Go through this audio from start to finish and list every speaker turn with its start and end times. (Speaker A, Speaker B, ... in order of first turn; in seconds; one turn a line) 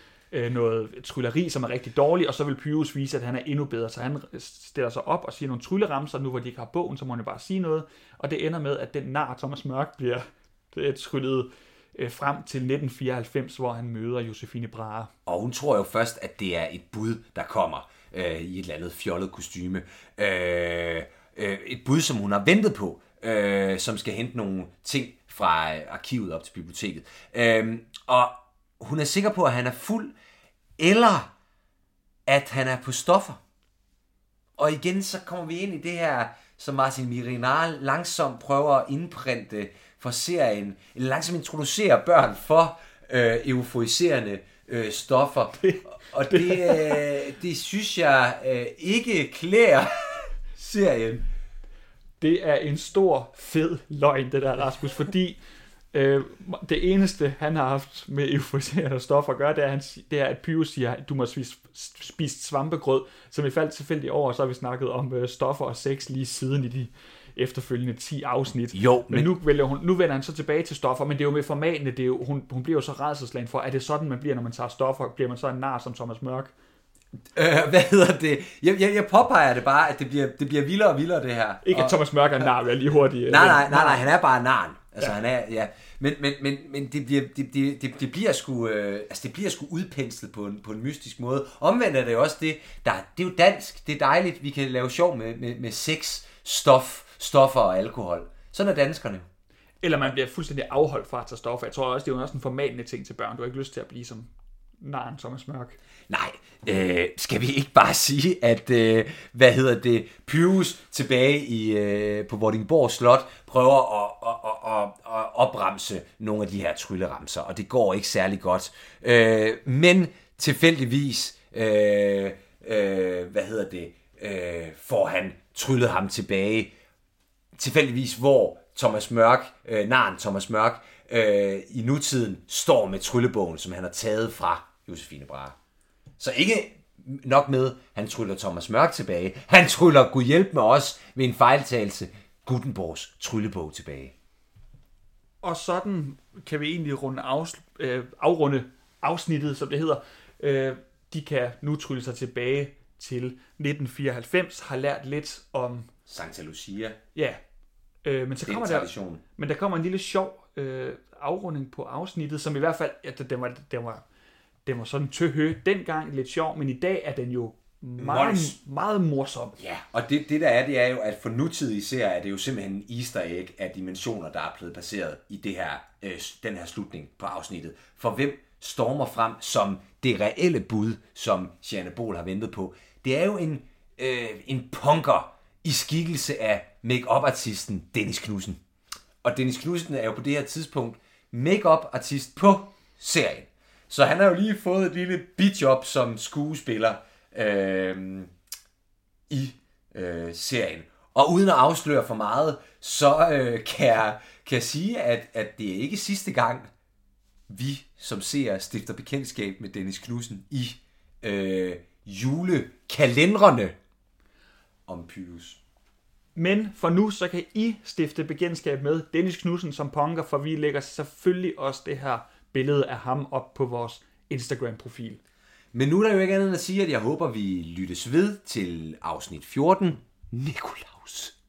Speaker A: 0.3-15.1
Speaker B: 15.2-30.1
Speaker B: 30.8-31.3
Speaker B: 32.2-33.4
Speaker B: 34.6-51.2
Speaker A: 45.6-47.1
Speaker A: 52.2-55.4
Speaker A: 55.9-76.5
Speaker B: 68.7-69.3
Speaker B: 77.3-82.0
Speaker A: 81.6-84.0
Speaker B: 83.3-99.3
Speaker A: 99.8-104.3
Speaker A: 104.8-105.8
Speaker B: 106.1-126.7
Speaker B: 127.5-135.6
Speaker B: 136.2-144.1
Speaker A: 145.4-155.9
Speaker B: 156.1-157.0
Speaker A: 157.1-157.4
Speaker A: 158.0-164.0
Speaker B: 158.4-159.2
Speaker A: 164.7-169.6
Speaker B: 168.0-168.5
Speaker B: 169.6-188.6
Speaker B: 189.2-198.3
Speaker B: 199.3-206.7
Speaker B: 207.5-213.7
Speaker B: 214.9-215.6
Speaker A: 216.3-225.2
Speaker B: 225.7-231.3